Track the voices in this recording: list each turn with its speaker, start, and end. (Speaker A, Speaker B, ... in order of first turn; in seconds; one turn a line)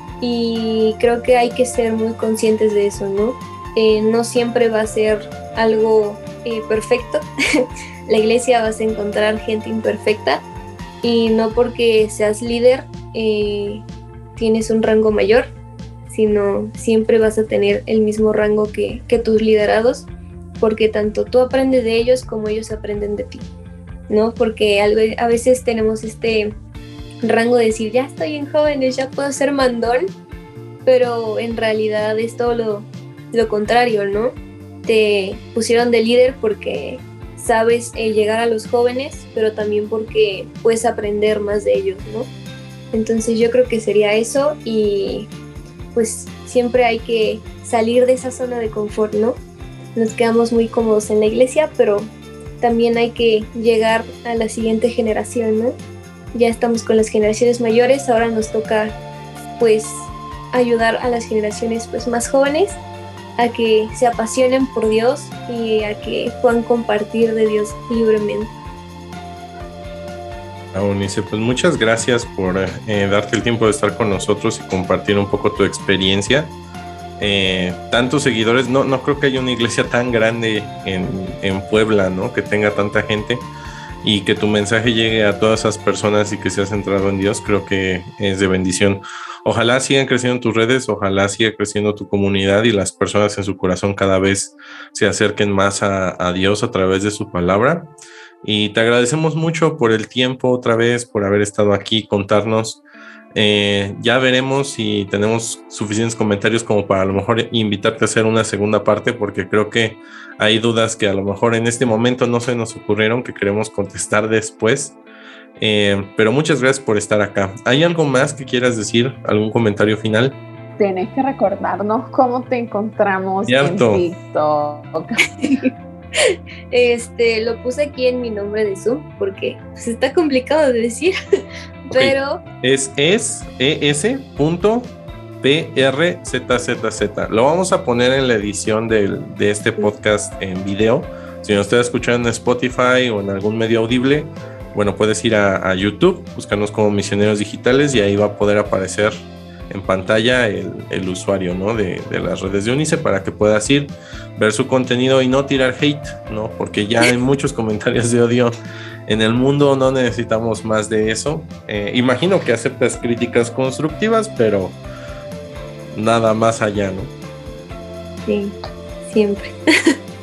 Speaker A: 0.2-10.4
Speaker A: 11.0-15.5
Speaker A: 16.1-20.1
Speaker A: 20.6-23.5
Speaker A: 24.1-26.6
Speaker A: 27.2-30.1
Speaker A: 30.9-34.3
Speaker A: 34.9-42.3
Speaker A: 42.9-45.3
Speaker A: 46.0-49.4
Speaker A: 50.0-55.8
Speaker A: 56.3-59.0
Speaker A: 59.6-62.8
Speaker A: 63.4-68.5
Speaker B: 70.7-76.5
Speaker B: 77.2-83.5
Speaker B: 84.0-97.9
Speaker B: 98.4-102.8
Speaker B: 103.3-115.0
Speaker B: 115.6-120.4
Speaker C: 120.8-125.6
Speaker B: 123.5-124.1
Speaker A: 126.2-131.2
Speaker A: 131.9-132.4
Speaker B: 131.9-158.5
Speaker B: 159.1-164.8
Speaker B: 165.9-167.1
Speaker A: 168.3-169.9